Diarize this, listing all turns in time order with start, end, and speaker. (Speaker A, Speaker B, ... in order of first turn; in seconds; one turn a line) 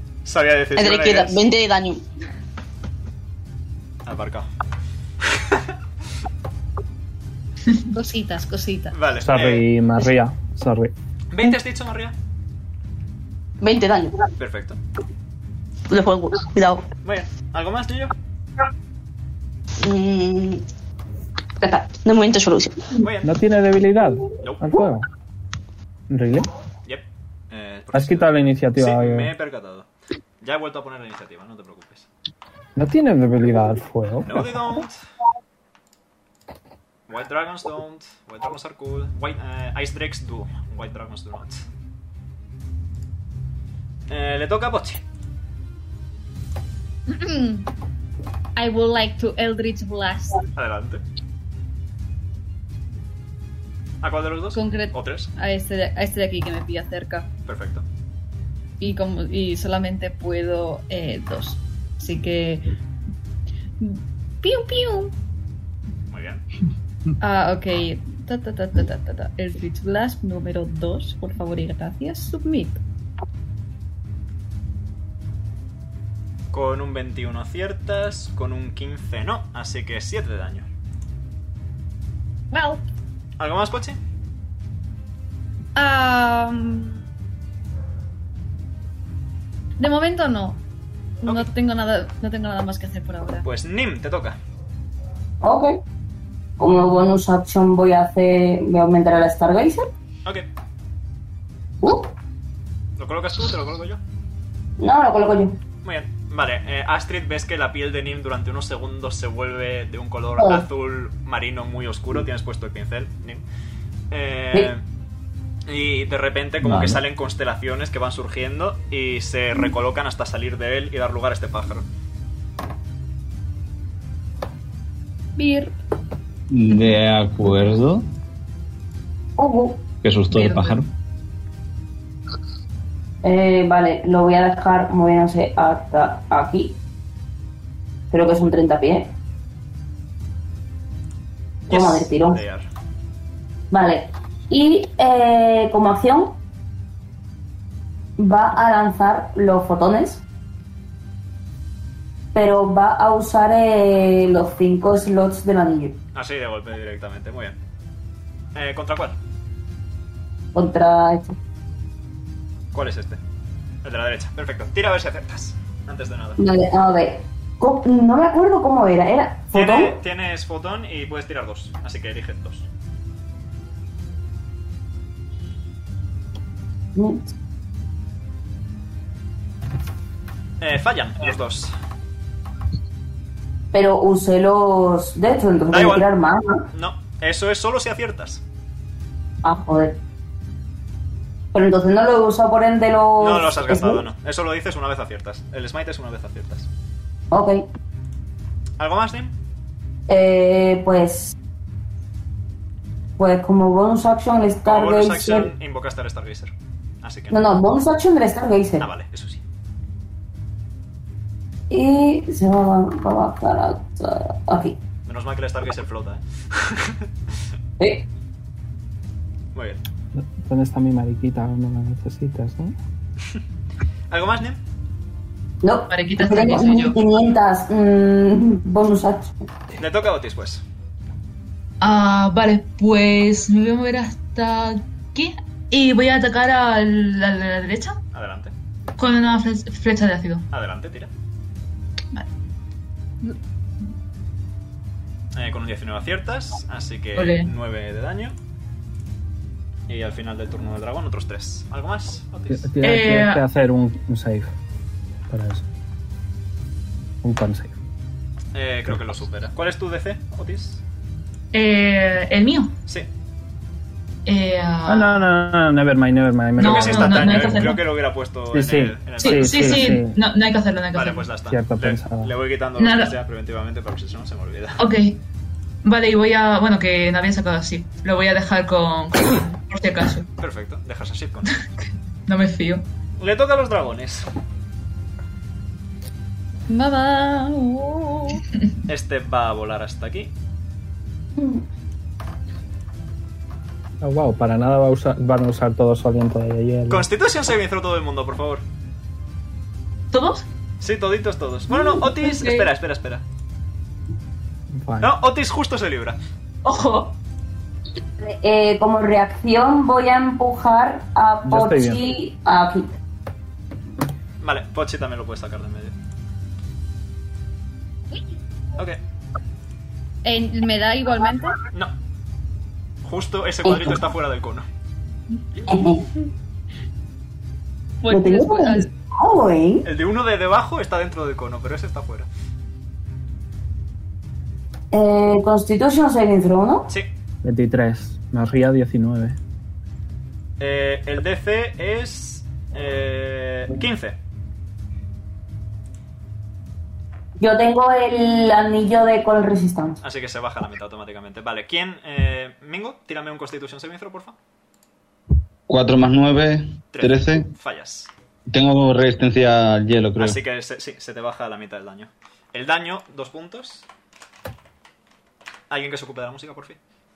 Speaker A: 0.2-1.4
Speaker B: 0.8-2.0
Speaker A: 4.0-4.5
Speaker A: 5.3-5.6
Speaker C: 7.9-9.0
Speaker A: 8.9-9.7
Speaker D: 9.2-10.9
Speaker A: 11.3-12.1
Speaker B: 13.6-14.2
Speaker A: 14.4-14.8
Speaker B: 15.9-16.9
Speaker A: 17.0-18.1
Speaker B: 19.8-20.6
Speaker B: 21.6-22.8
Speaker A: 23.0-23.3
Speaker D: 23.2-25.1
Speaker D: 26.1-26.5
Speaker A: 26.9-29.9
Speaker D: 27.9-29.3
Speaker A: 30.4-32.1
Speaker D: 32.8-34.5
Speaker A: 34.2-35.0
Speaker A: 37.1-41.6
Speaker A: 44.1-45.0
Speaker C: 47.1-47.7
Speaker C: 48.6-50.4
Speaker A: 50.6-51.0
Speaker A: 54.0-55.3
Speaker C: 54.5-57.3
Speaker A: 57.5-57.8
Speaker C: 58.8-62.8
Speaker C: 63.8-65.2
Speaker A: 66.1-66.4
Speaker C: 67.2-72.8
Speaker A: 76.5-80.7
Speaker C: 82.5-82.8
Speaker A: 83.4-84.0
Speaker C: 85.8-87.0
Speaker C: 89.8-90.6
Speaker A: 91.2-91.5
Speaker C: 91.2-93.5
Speaker A: 93.4-94.4
Speaker E: 95.4-95.8
Speaker E: 96.6-99.9
Speaker E: 101.8-102.1
Speaker A: 103.0-104.0
Speaker E: 104.8-105.6
Speaker A: 105.8-113.4
Speaker A: 114.1-114.8
Speaker A: 115.7-121.8
Speaker F: 116.6-117.0
Speaker C: 125.4-125.7
Speaker F: 126.5-128.0
Speaker E: 129.4-129.8
Speaker F: 130.0-130.9
Speaker G: 130.3-130.8
Speaker E: 133.2-136.8
Speaker E: 138.1-139.1
Speaker A: 141.7-142.7
Speaker E: 141.7-142.4
Speaker E: 143.7-146.4
Speaker E: 148.2-150.2
Speaker E: 152.3-156.0
Speaker A: 156.1-157.6
Speaker A: 158.6-159.2
Speaker E: 160.6-161.4
Speaker A: 162.7-163.2
Speaker A: 163.8-166.4
Speaker E: 166.4-170.0
Speaker A: 169.5-172.7
Speaker E: 176.9-177.3
Speaker A: 180.6-181.7
Speaker E: 183.7-186.6
Speaker A: 185.7-186.1
Speaker A: 186.7-188.4
Speaker E: 189.4-190.0
Speaker E: 191.5-194.0
Speaker A: 193.2-196.7
Speaker E: 197.3-197.6
Speaker A: 198.8-199.3
Speaker E: 200.1-201.3
Speaker E: 203.2-205.5
Speaker A: 204.6-207.4
Speaker E: 207.3-208.9
Speaker A: 208.8-209.4
Speaker E: 211.7-214.8
Speaker A: 215.1-217.0
Speaker A: 219.5-219.8
Speaker D: 220.1-222.8
Speaker A: 224.1-224.6
Speaker E: 225.6-229.3
Speaker G: 225.9-227.0
Speaker A: 229.8-230.6
Speaker G: 231.8-238.0
Speaker A: 238.1-238.5
Speaker G: 239.0-240.4
Speaker A: 240.5-241.1
Speaker A: 245.3-248.3
Speaker G: 247.2-247.5
Speaker A: 249.9-252.7
Speaker D: 252.5-254.5
Speaker G: 252.8-253.4
Speaker D: 255.3-255.7
Speaker D: 257.2-257.8
Speaker A: 258.5-260.8
Speaker G: 261.5-262.7
Speaker G: 264.2-265.3
Speaker D: 264.9-267.7
Speaker G: 266.6-267.8
Speaker A: 266.6-270.0
Speaker D: 268.5-270.1
Speaker G: 269.2-271.3
Speaker A: 270.9-274.8
Speaker D: 271.5-272.3
Speaker G: 272.8-273.1
Speaker G: 274.8-275.2
Speaker G: 275.8-280.2
Speaker A: 280.4-281.5
Speaker G: 282.3-282.9
Speaker A: 283.2-284.3
Speaker C: 286.7-288.4
Speaker A: 288.9-290.3
Speaker E: 291.4-291.6
Speaker D: 294.0-297.1
Speaker A: 296.9-298.6
Speaker G: 300.1-300.4
Speaker A: 300.8-303.2
Speaker G: 301.7-302.7
Speaker D: 304.7-305.1
Speaker A: 305.0-306.2
Speaker G: 306.6-307.1
Speaker E: 308.2-312.9
Speaker D: 311.4-312.0
Speaker A: 314.4-315.9
Speaker C: 320.2-321.6
Speaker A: 323.0-324.6
Speaker E: 323.6-323.9
Speaker E: 325.6-326.1
Speaker C: 328.0-328.9
Speaker E: 328.1-329.9
Speaker A: 329.9-332.3
Speaker E: 334.9-336.9
Speaker D: 337.4-339.4
Speaker A: 340.6-344.1
Speaker E: 347.4-350.0
Speaker A: 350.0-354.4
Speaker F: 355.7-357.5
Speaker A: 356.9-358.1
Speaker F: 358.5-360.4
Speaker A: 360.2-363.9
Speaker A: 365.7-366.8